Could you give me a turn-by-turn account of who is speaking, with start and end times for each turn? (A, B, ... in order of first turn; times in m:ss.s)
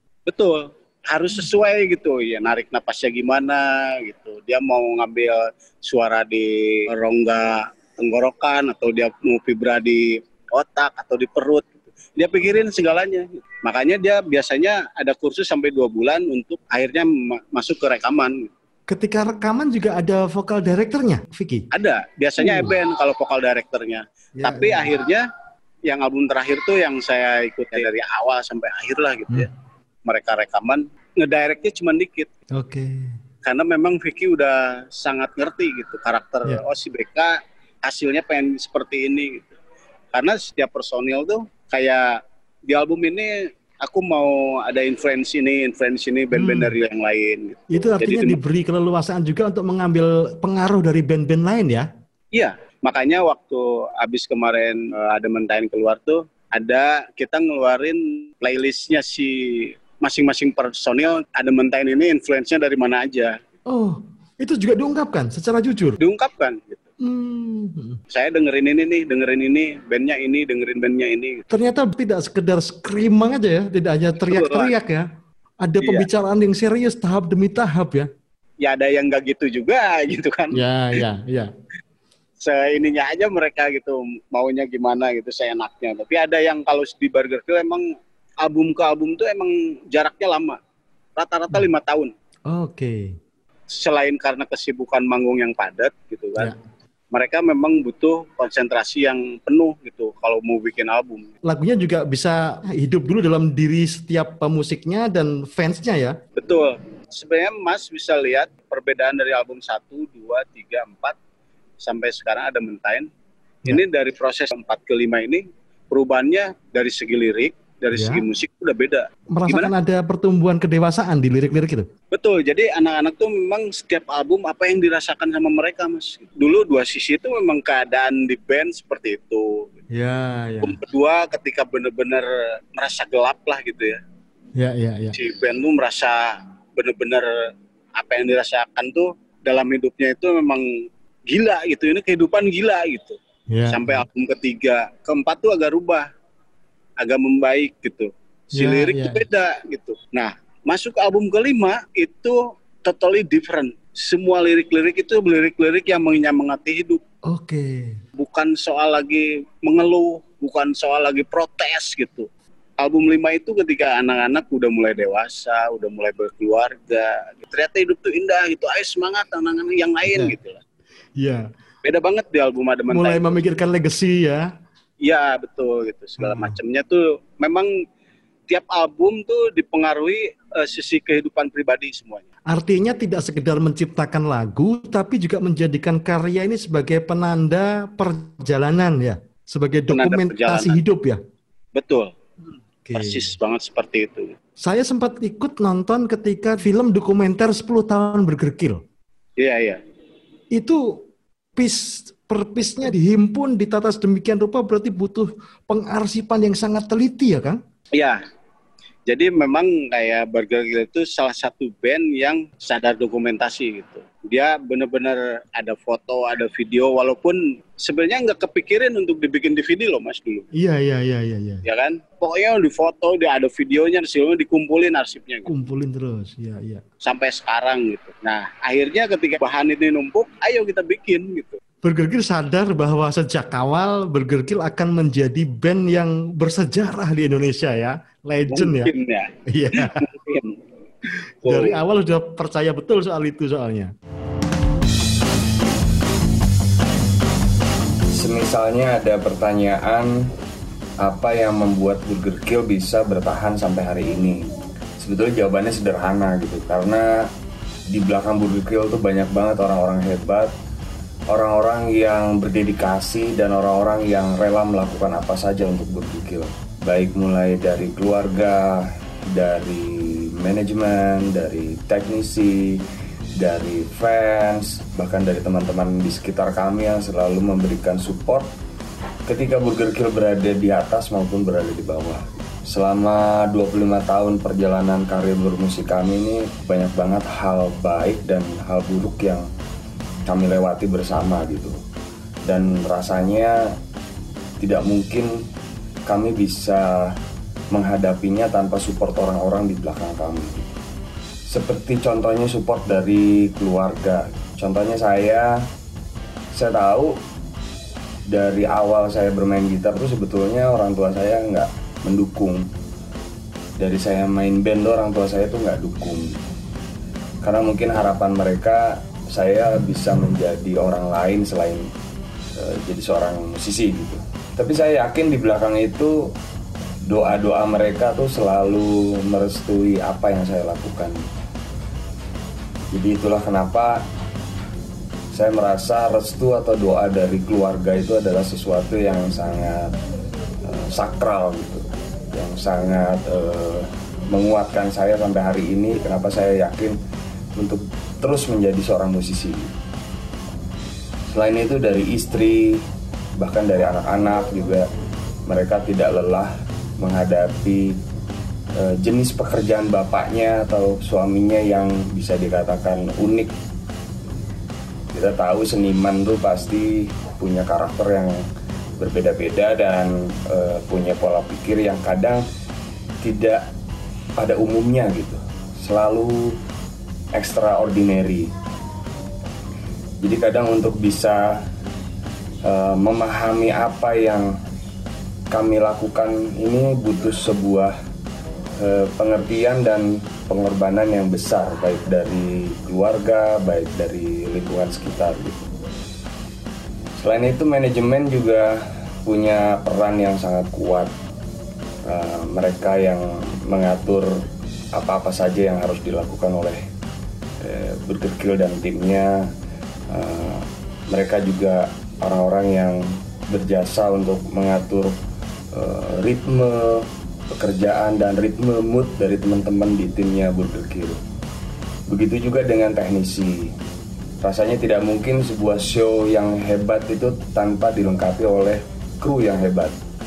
0:00.3-0:18.5 A
0:18.9-0:21.7 B
0:21.7-0:25.2 A
0:22.4-0:22.7 B
0:24.4-0:24.9 B
0:25.8-0:29.5 A
0:30.0-0:32.3 A
0:32.5-0:33.1 B
0:33.4-0:39.5 A
0:40.1-0:48.4 A
0:46.4-0:46.8 B
0:47.7-0:51.9 B
0:52.3-1:03.4 A
1:03.7-1:06.0 B
1:06.0-1:06.8 A
1:07.0-1:08.0 B
1:08.1-1:11.5 A
1:11.5-1:15.1 B
1:14.3-1:14.7 A
1:15.6-1:18.1 B
1:15.8-1:16.1 A
1:18.6-1:20.6 A
1:20.5-1:21.5 B
1:22.4-1:30.6 A
1:31.2-1:32.1 A
1:32.5-1:33.2 B
1:33.7-1:36.5 A
1:37.1-1:41.4 A
1:41.4-1:46.2 B
1:46.4-1:51.2 A
1:51.8-1:53.1 A
1:53.7-1:59.7 A
1:57.9-1:58.2 B
1:59.3-2:01.9 B
2:02.1-2:09.8 A
2:09.9-2:10.8 B
2:10.6-2:14.0 A
2:14.6-2:15.2 B
2:15.1-2:17.3 A
2:18.0-2:23.2 A
2:23.5-2:24.1 B
2:23.7-2:26.1 A
2:27.0-2:37.0 A
2:28.6-2:29.2 B
2:37.3-2:38.0 B
2:38.2-2:42.3 A
2:42.8-2:50.6 A
2:50.1-2:50.4 B
2:51.2-2:51.5 B
2:51.8-2:53.3 A
2:52.9-2:54.5 B
2:55.0-2:57.7 A
2:56.2-2:56.6 B
2:58.5-3:02.3 A
3:02.5-3:11.2 B
3:09.9-3:10.8 A
3:11.8-3:12.1 A
3:12.8-3:13.3 B
3:13.0-3:14.4 A
3:14.6-3:18.8 B
3:19.4-3:19.8 A
3:20.5-3:21.0 B
3:21.6-3:27.6 B
3:27.9-3:28.2 A
3:29.1-3:40.5 A
3:40.5-3:41.6 B
3:41.6-3:45.5 A
3:45.5-3:46.8 B
3:47.0-3:51.6 A
3:51.8-3:58.9 B
3:58.5-4:00.6 A
3:59.5-4:00.0 B
4:01.4-4:01.8 A
4:01.4-4:03.9 B
4:08.1-4:10.3 C
4:11.0-4:17.3 C
4:17.9-4:20.5 C
4:21.3-4:32.8 C
4:33.4-4:38.5 C
4:39.3-4:49.5 C
4:50.3-4:51.8 C
4:52.5-4:53.8 C
4:54.6-4:55.5 C
4:56.1-4:57.2 C
4:57.7-5:00.7 C
5:01.5-5:05.6 C
5:06.5-5:07.2 C
5:08.3-5:12.7 C
5:13.8-5:16.4 C
5:17.4-5:21.9 C
5:22.6-5:26.3 C
5:27.1-5:31.2 C
5:32.9-5:34.0 C
5:35.3-5:39.9 C
5:40.6-5:47.0 C
5:47.6-5:49.7 C
5:51.3-5:52.8 C
5:53.4-5:54.9 C
5:55.5-5:58.0 C
5:58.7-6:03.5 C
6:05.1-6:08.4 C
6:09.0-6:12.4 C
6:13.2-6:13.7 C
6:14.4-6:16.6 C
6:17.3-6:18.5 C
6:20.2-6:21.7 C
6:22.6-6:24.6 C
6:25.5-6:28.0 C
6:28.8-6:35.7 C
6:37.2-6:41.1 C
6:42.0-6:46.8 C
6:47.6-6:49.5 C
6:50.1-6:55.2 C
6:55.7-7:01.2 C
7:02.1-7:03.7 C
7:04.4-7:10.0 C